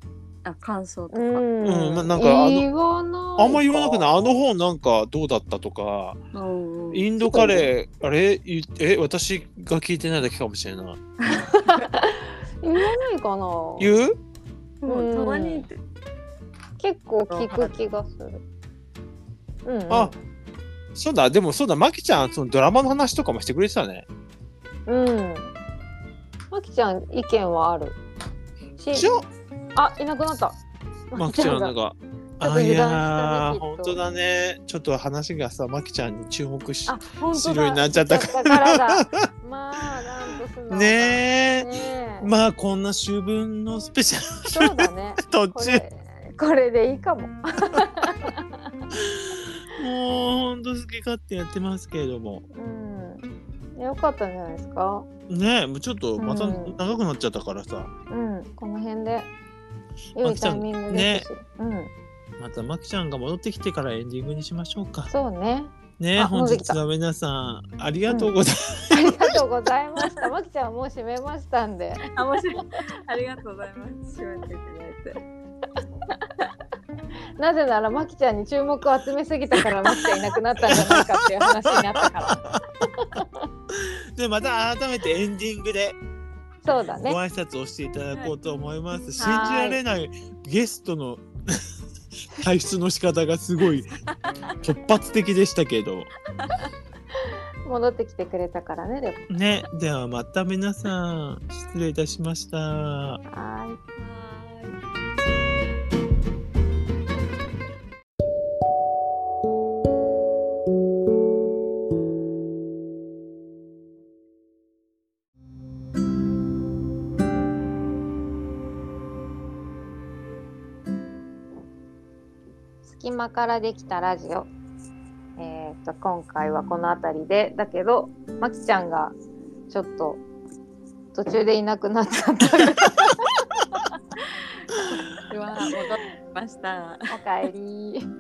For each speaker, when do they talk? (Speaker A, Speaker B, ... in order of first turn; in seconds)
Speaker A: 0.4-1.5, 6.3-7.1, 11.2-11.8, 14.8-15.8, 17.3-17.8, 72.1-75.2, 96.4-96.7, 104.0-104.8, 134.8-137.2
Speaker B: 1.1-4.4, 7.2-7.7, 11.5-13.9, 14.9-15.7, 16.8-18.4, 19.6-20.1, 24.9-25.5, 26.5-28.0, 28.8-29.1, 29.8-30.6, 31.1-31.7, 32.4-34.0, 36.9-42.3, 44.5-48.7, 52.5-55.1, 56.2-56.8, 58.1-59.3, 60.2-61.9, 65.1-66.8, 68.1-68.3, 68.9-72.1, 77.4-82.5, 83.0-83.4, 86.6-87.2, 89.2-89.8, 97.7-99.3, 103.3-103.8, 122.8-124.5, 125.4-129.2, 129.7-130.2, 131.1-133.2, 135.5-136.0, 137.1-138.1
Speaker C: 1.6-2.7, 3.4-6.2, 6.9-11.0, 13.8-14.2, 19.9-20.2, 20.9-24.1, 28.9-29.3, 31.2-39.2, 40.7-45.8, 48.9-52.5, 55.3-57.9, 60.2-61.3, 62.4-65.1, 66.0-69.4, 80.6-81.1, 81.7-82.6, 83.7-86.0, 87.0-91.7, 92.3-93.9, 94.6-96.1, 99.3-103.2